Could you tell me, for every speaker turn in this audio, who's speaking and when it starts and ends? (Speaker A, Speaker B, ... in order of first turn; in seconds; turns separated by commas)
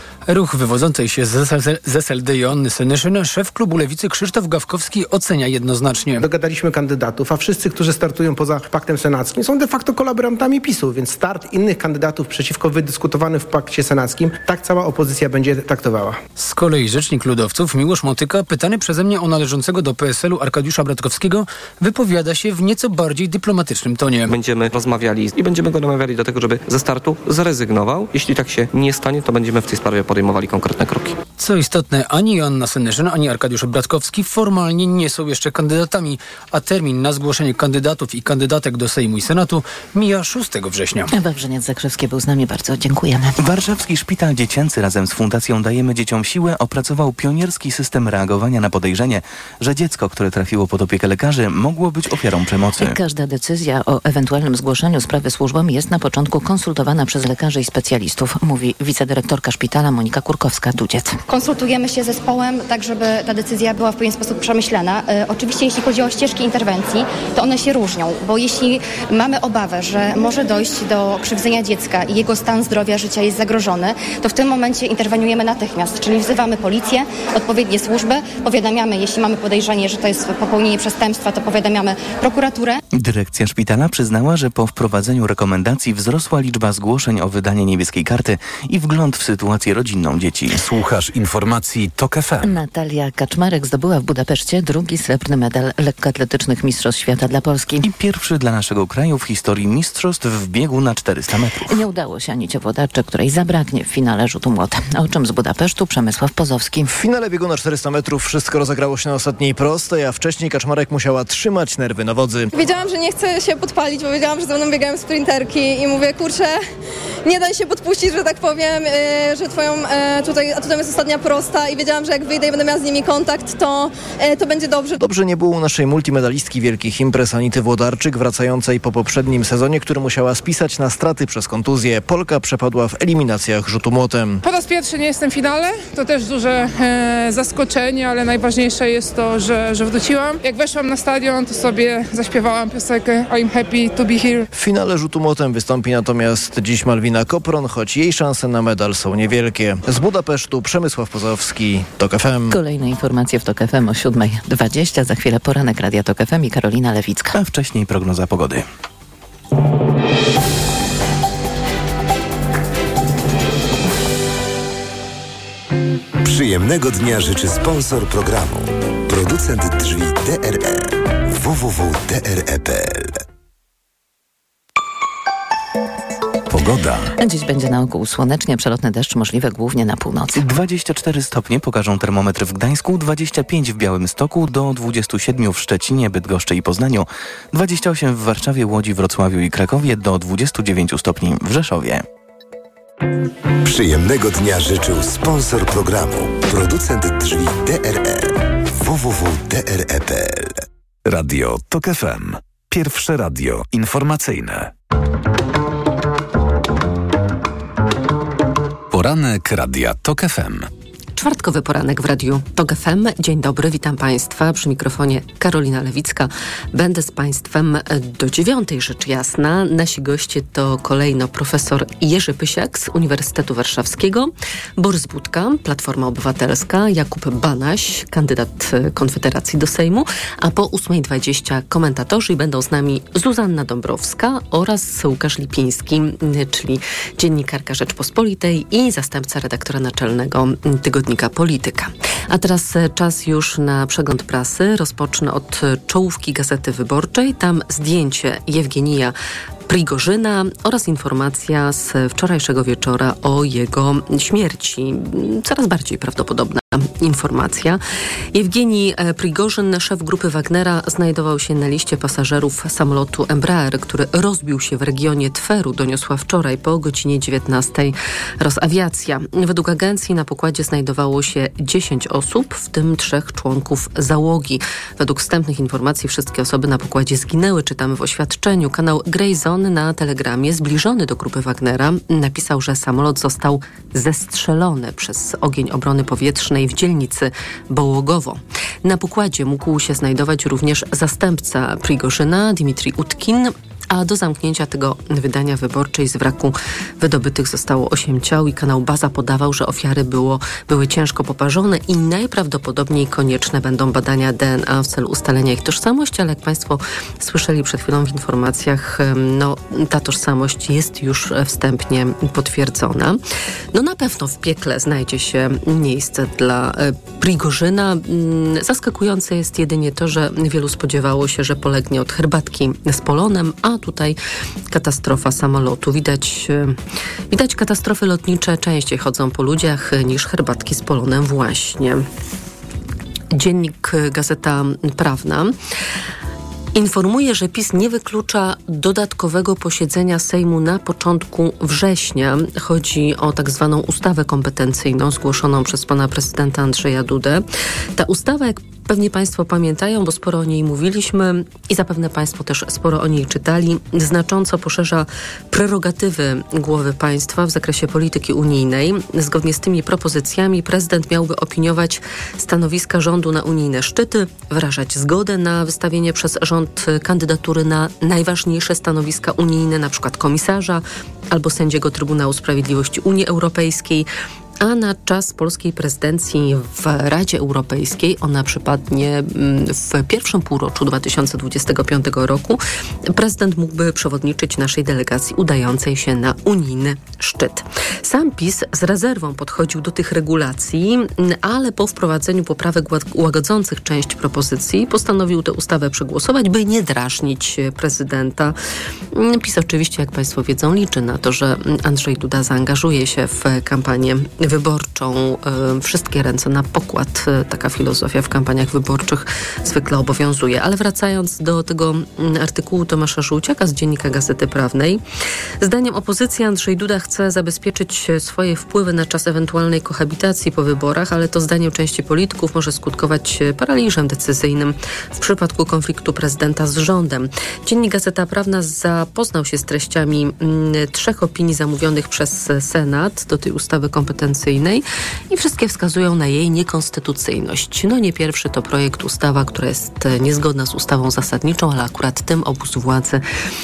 Speaker A: 0.3-6.3, Speaker B: 6.2-16.2, Speaker A: 16.4-24.3, Speaker C: 24.3-31.2, Speaker A: 31.4-41.1, Speaker D: 41.1-43.4, Speaker E: 43.4-53.0, Speaker D: 52.8-61.2, Speaker F: 61.3-82.8, Speaker E: 82.9-90.6, Speaker G: 90.5-92.5, Speaker D: 92.4-97.9, Speaker E: 97.8-101.8, Speaker D: 101.7-106.9, Speaker H: 106.9-112.5, Speaker I: 112.5-116.6, Speaker I: 117.2-125.0, Speaker H: 125.0-134.4, Speaker J: 134.4-144.5, Speaker H: 144.5-152.6, Speaker D: 152.5-157.3, Speaker E: 157.3-158.7, Speaker K: 166.2-173.2, Speaker G: 176.5-177.1, Speaker D: 177.2-180.5, Speaker E: 180.3-192.0, Speaker K: 193.6-200.6, Speaker G: 201.1-204.7, Speaker G: 208.9-210.7, Speaker L: 211.2-249.1, Speaker L: 249.7-257.8, Speaker L: 258.3-313.2, Speaker L: 313.7-324.2, Speaker L: 324.7-326.8, Speaker L: 327.3-332.1, Speaker L: 333.3-335.6, Speaker L: 336.8-347.4, Speaker L: 348.0-374.1, Speaker L: 374.6-398.5, Speaker L: 399.1-415.0, Speaker L: 415.6-443.2